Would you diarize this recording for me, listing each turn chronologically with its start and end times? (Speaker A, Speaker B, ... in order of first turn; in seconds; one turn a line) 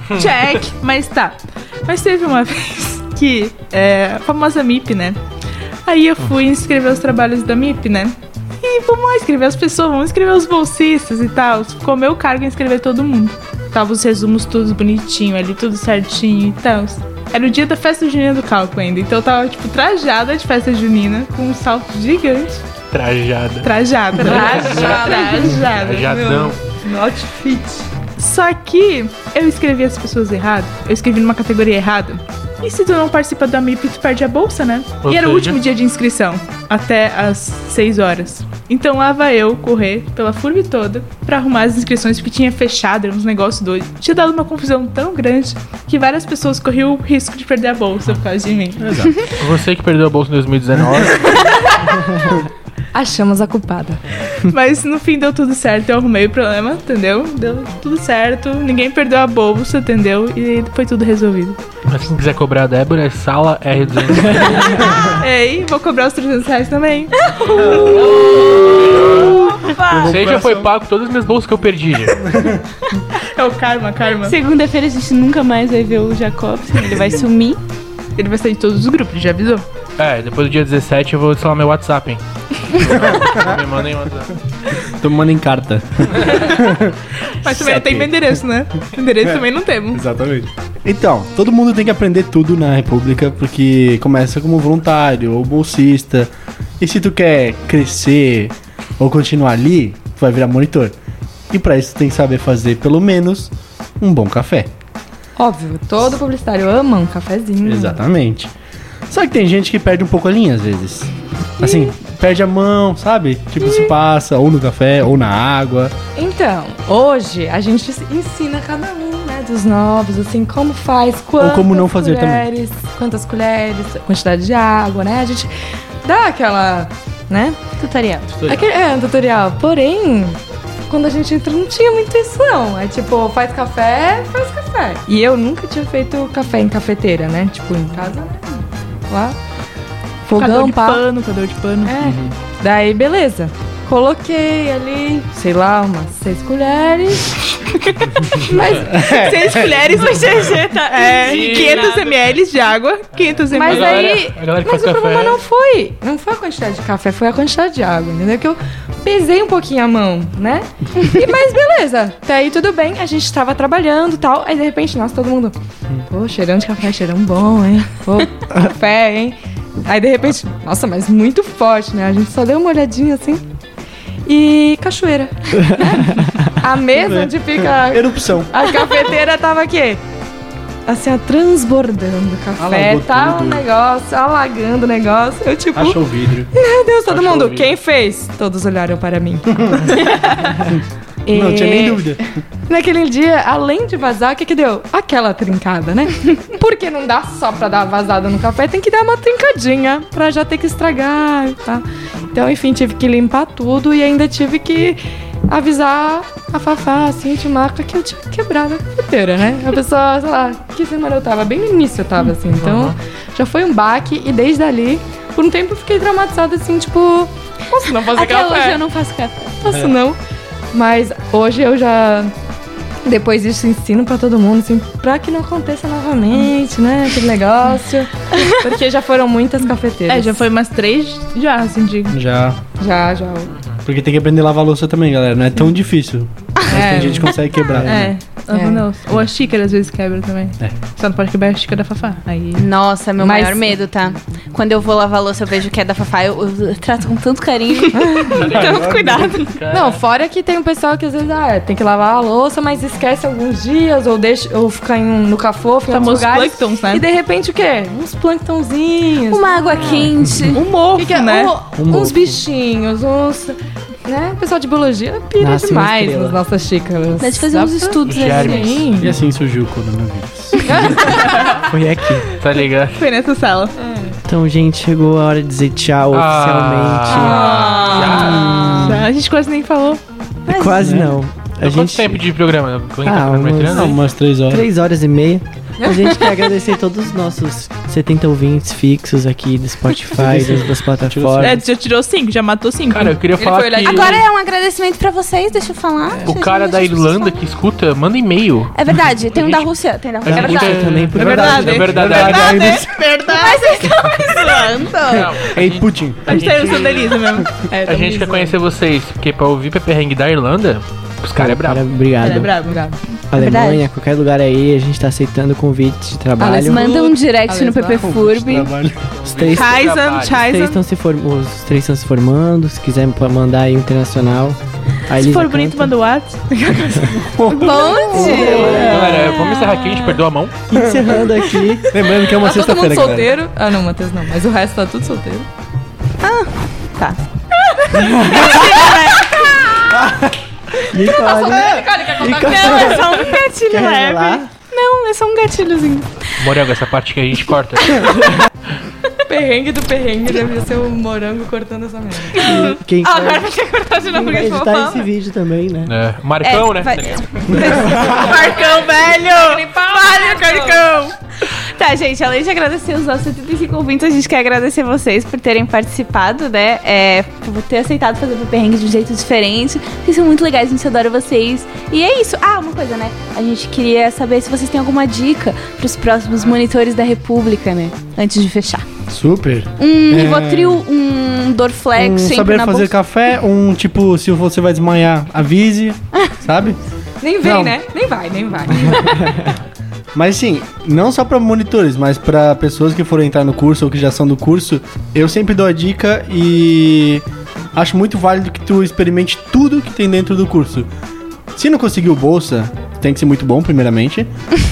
Speaker A: 0.1-5.2
Speaker A: 5.8-22.6
Speaker B: 22.9-23.7
Speaker A: 23.6-26.5
Speaker C: 24.2-27.8
Speaker B: 24.2-26.6
Speaker A: 28.2-49.0
Speaker B: 35.0-35.6
Speaker D: 48.8-49.1
Speaker B: 49.4-51.5
Speaker C: 52.9-54.0
Speaker A: 54.4-61.6
Speaker B: 61.9-65.0
Speaker A: 65.1-68.1
Speaker E: 67.2-70.2
Speaker B: 68.6-69.4
Speaker D: 69.8-70.7
Speaker B: 70.0-72.3
Speaker D: 72.2-72.6
Speaker A: 73.2-74.4
Speaker E: 74.2-77.6
Speaker A: 78.2-79.6
Speaker B: 80.0-84.4
Speaker D: 82.9-83.5
Speaker D: 84.8-88.4
Speaker A: 87.4-90.0
Speaker D: 89.9-100.9
Speaker D: 101.5-104.7
Speaker C: 105.4-108.0
Speaker D: 107.6-108.5
Speaker D: 109.1-115.9
Speaker C: 111.6-111.9
Speaker C: 113.6-113.9
Speaker C: 116.2-125.5
Speaker D: 121.4-122.5
Speaker C: 126.0-127.6
Speaker E: 127.8-128.3
Speaker D: 128.3-128.6
Speaker C: 128.4-139.4
Speaker C: 140.2-141.0
Speaker A: 140.3-141.9
Speaker C: 141.8-147.4
Speaker D: 142.0-142.3
Speaker C: 148.2-149.1
Speaker D: 148.7-150.0
Speaker A: 148.9-154.2
Speaker E: 150.3-152.1
Speaker B: 151.2-152.1
Speaker B: 153.2-155.4
Speaker C: 153.5-165.5
Speaker C: 166.1-173.4
Speaker C: 174.2-180.0
Speaker F: 175.8-176.2
Speaker D: 176.9-178.6
Speaker C: 180.9-190.2
Speaker D: 182.6-183.6
Speaker D: 185.8-186.5
Speaker B: 187.1-187.7
Speaker D: 189.6-190.8
Speaker C: 191.2-192.2
Speaker D: 191.3-192.3
Speaker C: 192.7-218.8
Speaker B: 212.6-212.9
Speaker E: 218.1-219.6
Speaker C: 219.6-220.2
Speaker C: 220.7-222.3
Speaker C: 223.0-230.4
Speaker A: 230.1-232.2
Speaker D: 232.1-232.6
Speaker C: 232.8-233.5
Speaker B: 233.5-233.8
Speaker D: 233.8-238.2
Speaker C: 236.7-237.4
Speaker A: 237.8-242.6
Speaker C: 238.5-238.8
Speaker E: 242.6-249.6
Speaker C: 243.2-243.8
Speaker C: 247.9-248.4
Speaker B: 248.3-250.0
Speaker D: 248.4-249.4
Speaker C: 249.7-260.1
Speaker A: 255.9-257.0
Speaker E: 259.3-260.6
Speaker A: 260.5-261.6
Speaker C: 260.9-269.1
Speaker D: 261.8-262.4
Speaker F: 265.4-266.4
Speaker E: 267.2-268.9
Speaker B: 268.0-269.1
Speaker D: 269.0-271.2
Speaker C: 270.6-271.5
Speaker F: 271.5-272.3
Speaker B: 272.4-273.0
Speaker A: 272.9-273.7
Speaker F: 274.2-278.7
Speaker B: 276.1-278.8
Speaker C: 277.1-279.0
Speaker A: 278.8-280.0
Speaker E: 280.4-280.8
Speaker F: 280.5-282.2
Speaker D: 280.7-281.1
Speaker B: 281.6-284.0
Speaker F: 283.0-291.6
Speaker D: 283.7-284.6
Speaker C: 285.8-286.2
Speaker D: 290.1-291.6
Speaker A: 291.4-293.2
Speaker B: 292.9-294.2
Speaker C: 293.4-294.2
Speaker E: 293.8-297.4
Speaker B: 296.2-299.7
Speaker E: 298.7-305.4
Speaker F: 300.2-302.4
Speaker B: 300.2-302.8
Speaker D: 300.4-303.1
Speaker A: 301.2-301.8
Speaker A: 302.5-303.6
Speaker B: 305.1-307.2
Speaker D: 305.1-306.4
Speaker A: 306.2-307.5
Speaker C: 307.6-308.6
Speaker B: 307.8-311.8
Speaker F: 311.4-312.5
Speaker A: 312.2-312.8
Speaker C: 312.6-313.0
Speaker F: 313.3-316.9
Speaker E: 313.3-313.8
Speaker C: 316.4-318.0
Speaker E: 316.6-318.7
Speaker D: 317.9-319.1
Speaker B: 319.1-320.5
Speaker F: 319.2-325.9
Speaker E: 319.5-320.8
Speaker A: 325.2-327.1
Speaker C: 326.7-327.2
Speaker D: 327.1-328.8
Speaker E: 327.5-330.2
Speaker F: 328.1-329.4
Speaker B: 328.2-330.6
Speaker F: 330.7-332.0
Speaker D: 330.7-331.2
Speaker D: 331.9-333.3
Speaker C: 332.2-335.5
Speaker E: 336.2-339.9
Speaker F: 337.9-339.0
Speaker D: 339.9-340.4
Speaker F: 340.9-344.5
Speaker C: 341.2-343.3
Speaker D: 341.4-341.8
Speaker E: 342.2-346.5
Speaker B: 346.4-348.2
Speaker C: 349.3-352.5
Speaker F: 352.3-353.5
Speaker E: 352.4-355.0
Speaker F: 354.1-355.9
Speaker B: 355.9-357.9
Speaker E: 356.4-378.8
Speaker C: 359.3-361.1
Speaker D: 379.1-380.9
Speaker E: 379.8-382.9
Speaker D: 381.9-386.8
Speaker C: 387.2-389.5
Speaker D: 387.4-387.8
Speaker D: 390.1-397.2
Speaker D: 397.7-400.9
Speaker D: 401.5-404.3